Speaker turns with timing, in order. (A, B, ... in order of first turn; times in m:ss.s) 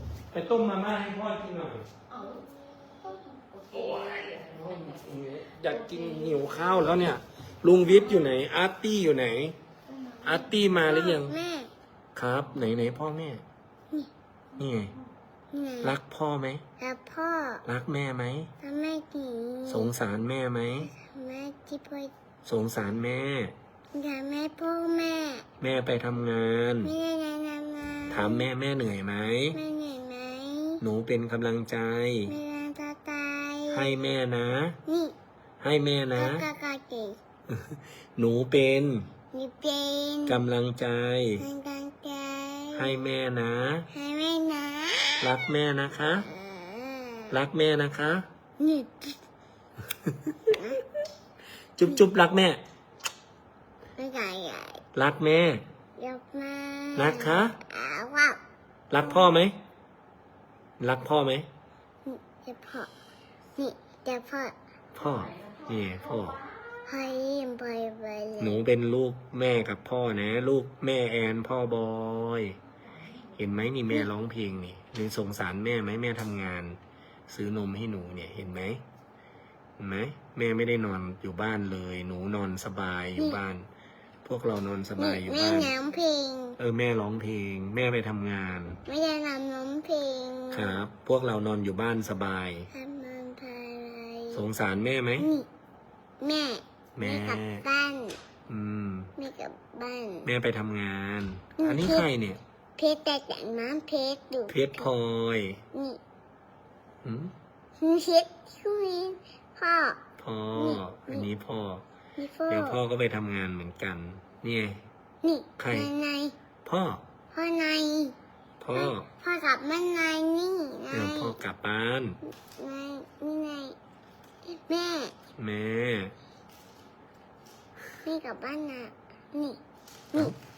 0:00.3-0:01.9 A
0:02.1-0:02.4 B
0:03.0-0:06.9 B
0:03.7-0:09.6 A
0:09.9-0:11.7 C
0:10.2-0:11.3 A
0:12.1-0:13.4 A
0:14.6-0:14.9 A
0:15.5-0:15.9 C
0:15.8-0:16.6 A
0:16.8-0:17.6 C
0:17.6-0:18.5 A
0:18.6-0:19.9 C
0:19.7-0:20.9 A
0:20.9-0:22.1 C
0:22.4-0:23.5 A
0:23.9-0:25.4 C
0:25.6-0:26.9 A
0:26.8-0:28.4 C
0:28.1-0:29.6 A
0:29.5-0:30.8 C
0:30.8-0:32.3 A
0:32.3-0:33.9 C
0:33.7-0:34.8 A
0:34.9-0:35.1 C
0:35.6-0:36.4 A
0:36.2-0:37.2 C
0:37.5-0:39.1 A
0:39.3-0:40.4 C
0:40.3-0:41.4 A
0:41.4-0:42.9 C
0:42.7-0:43.9 A
0:43.9-0:45.3 C
0:45.2-0:46.3 A
0:46.2-0:47.4 C
0:47.3-0:48.2 A
0:48.6-0:49.2 C
0:50.1-0:50.4 A
0:50.5-0:50.9 C
0:51.8-0:52.6 A
0:54.0-0:54.8 C
0:54.9-0:55.6 A
0:56.0-0:58.4 C
0:57.0-0:57.6 A
0:58.9-0:59.6 A
0:59.0-0:59.3 C
1:00.8-1:01.5 A
1:02.0-1:02.9 C
1:03.6-1:04.5 C
1:04.9-1:06.4 A
1:05.0-1:06.6 B
1:06.8-1:08.6 C
1:08.4-1:12.6 A
1:13.4-1:18.8 A
1:19.8-1:23.7 A
1:24.2-1:25.7 A
1:25.0-1:26.6 C
1:26.6-1:28.8 A
1:28.8-1:30.8 C
1:30.5-1:32.7 A
1:32.7-1:34.4 C
1:34.3-1:35.3 A
1:35.2-1:35.5 C
1:36.2-1:38.2 C
1:37.0-1:37.6 A
1:38.5-1:39.1 A
1:39.2-1:40.3 C
1:40.2-1:42.4 A
1:41.6-1:42.1 C
1:42.8-1:44.9 C
1:44.5-1:45.6 A
1:45.7-1:46.0 C
1:47.0-1:47.3 A
1:47.8-1:50.0 C
1:50.2-1:51.8 A
1:50.5-1:51.3 C
1:52.2-1:52.8 C
1:52.5-1:54.8 A
1:55.2-1:56.3 C
1:55.6-1:55.9 A
1:56.6-1:57.0 A
1:57.3-1:58.1 C
1:58.6-1:59.0 A
1:58.7-2:01.3 C
2:00.9-2:02.2 A
2:02.2-2:03.8 C
2:04.5-2:05.1 C
2:05.4-2:06.1 A
2:08.0-2:09.6 C